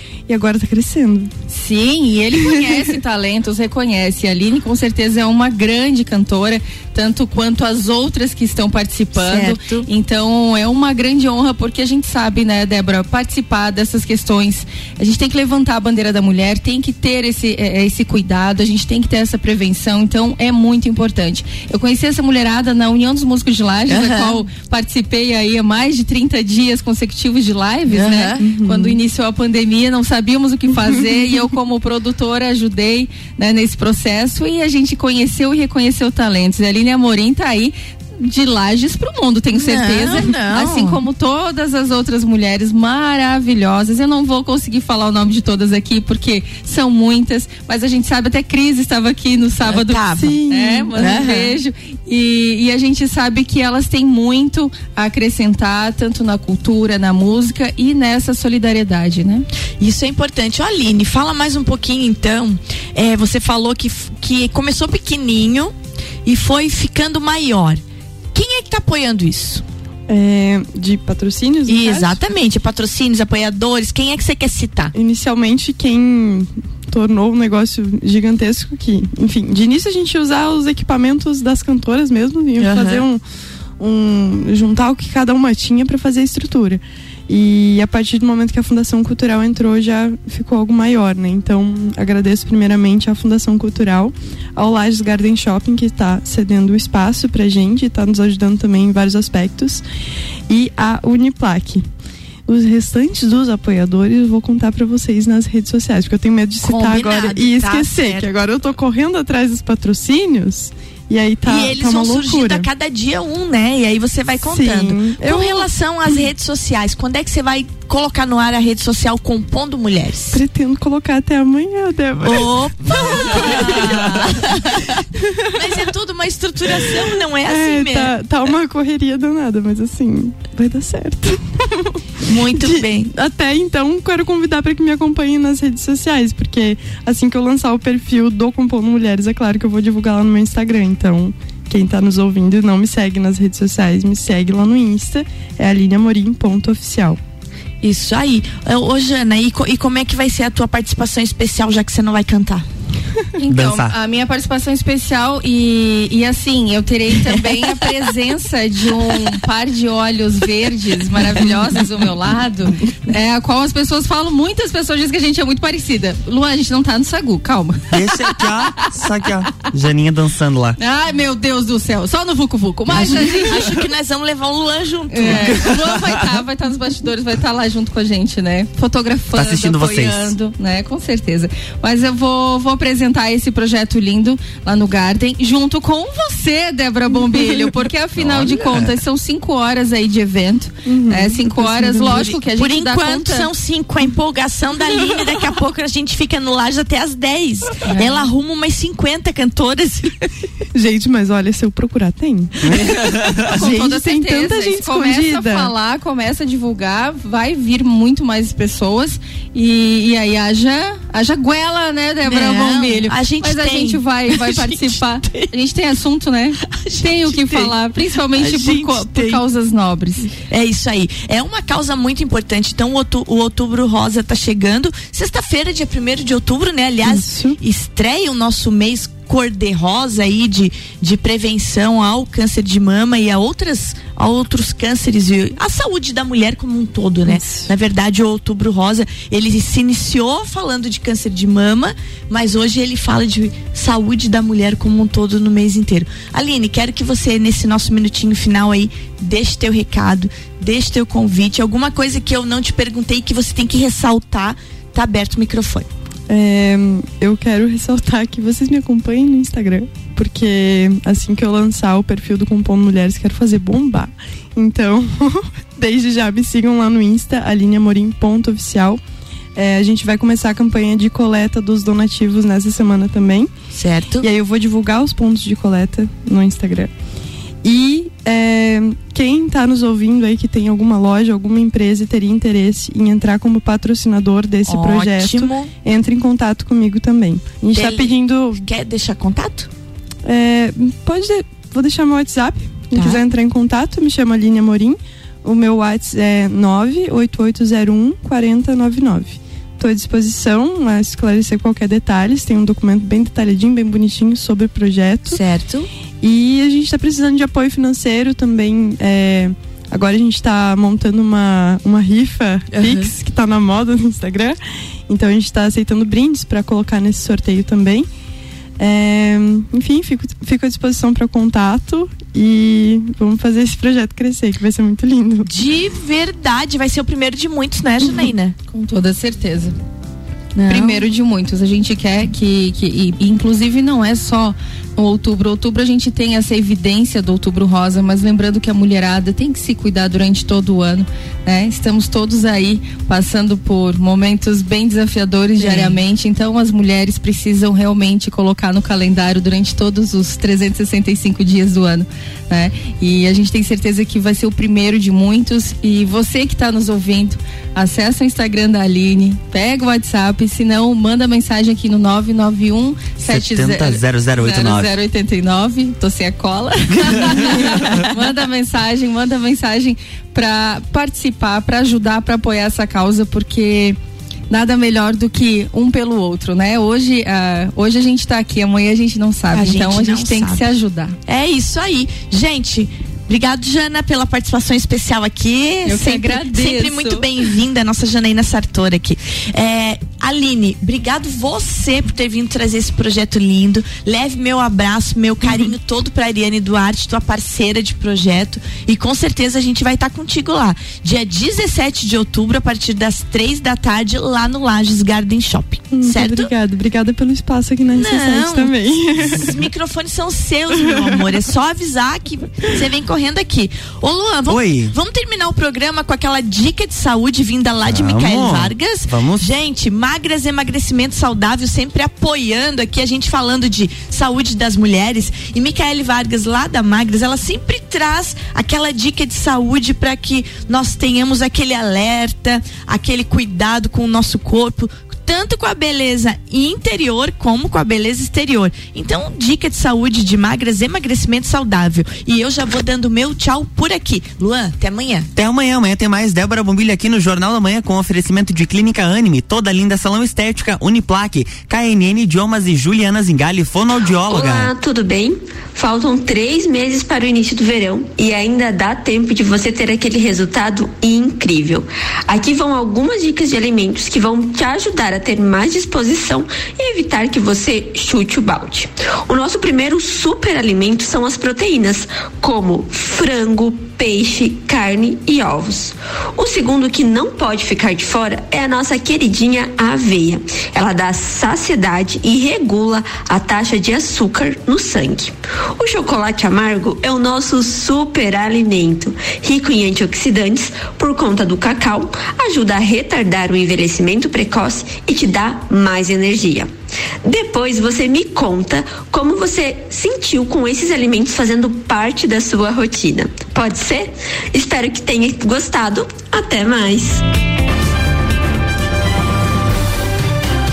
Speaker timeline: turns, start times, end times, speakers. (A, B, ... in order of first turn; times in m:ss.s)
0:00.3-0:01.3 A
0:01.5-0:59.4 B
0:02.5-0:02.8 A
0:09.1-0:09.8 C
0:23.9-0:24.4 C
0:27.9-0:28.4 C
0:28.4-0:29.0 A
0:39.5-0:41.0 C
0:49.6-0:50.4 C
0:50.1-0:51.2 A
0:51.0-0:51.6 C
0:59.8-1:05.7 C
1:06.2-1:07.8 C
1:08.3-1:09.6 C
1:10.1-1:12.2 A
1:11.7-1:14.9 C
1:14.9-1:23.2 A
1:22.6-1:23.0 C
1:23.8-1:39.8 A
1:40.5-1:41.8 A
1:42.5-1:52.7 A
1:46.6-1:48.4 C
1:51.4-2:00.4 C
1:54.4-1:55.7 A
2:00.3-2:04.5 A
2:02.2-2:05.0 C
2:05.5-2:08.1 C
2:07.4-2:11.9 A
2:12.2-2:13.1 C
2:12.5-2:27.2 A
2:27.8-2:32.6 C
2:33.4-2:48.9 B
2:33.5-2:34.0 D
2:47.9-2:50.8 D
2:50.8-2:53.9 B
2:52.9-2:55.7 C
2:55.1-3:13.5 B
2:59.3-3:00.3 D
3:07.2-3:07.7 A
3:08.2-3:08.9 D
3:10.8-3:12.3 A
3:12.2-3:20.3 C
3:17.9-3:18.3 B
3:20.7-3:22.5 A
3:22.6-3:23.4 D
3:22.7-3:23.0 C
3:23.4-3:25.7 A
3:23.5-3:40.3 B
3:32.3-3:35.5 C
3:36.6-3:37.7 C
3:38.3-3:39.4 C
3:40.3-4:15.9 C
3:47.0-3:47.6 A
3:57.3-3:57.7 A
4:16.3-4:29.0 A
4:29.6-4:33.5 A
4:33.7-4:34.3 C
4:34.2-4:36.9 A
4:37.6-4:48.6 A
4:44.6-4:45.7 C
4:47.7-4:49.7 C
4:50.2-5:05.4 A
4:52.9-4:53.2 C
5:05.3-5:05.9 C
5:06.2-5:14.6 A
5:12.7-5:13.1 C
5:15.1-5:18.1 A
5:18.8-5:25.5 A
5:25.4-5:28.6 C
5:28.7-5:29.7 B
5:30.5-5:31.0 C
5:30.7-6:14.0 B
5:45.6-5:45.9 C
6:03.2-6:04.9 D
6:14.5-6:21.2 B
6:19.5-6:20.7 C
6:21.2-6:46.5 C
6:25.8-6:27.3 B
6:45.9-6:49.6 A
6:47.9-7:25.3 C
6:50.9-6:51.2 A
6:54.5-6:54.9 D
6:57.8-6:59.5 D
7:25.4-7:34.7 D
7:34.2-8:16.7 E
8:17.2-8:27.2 E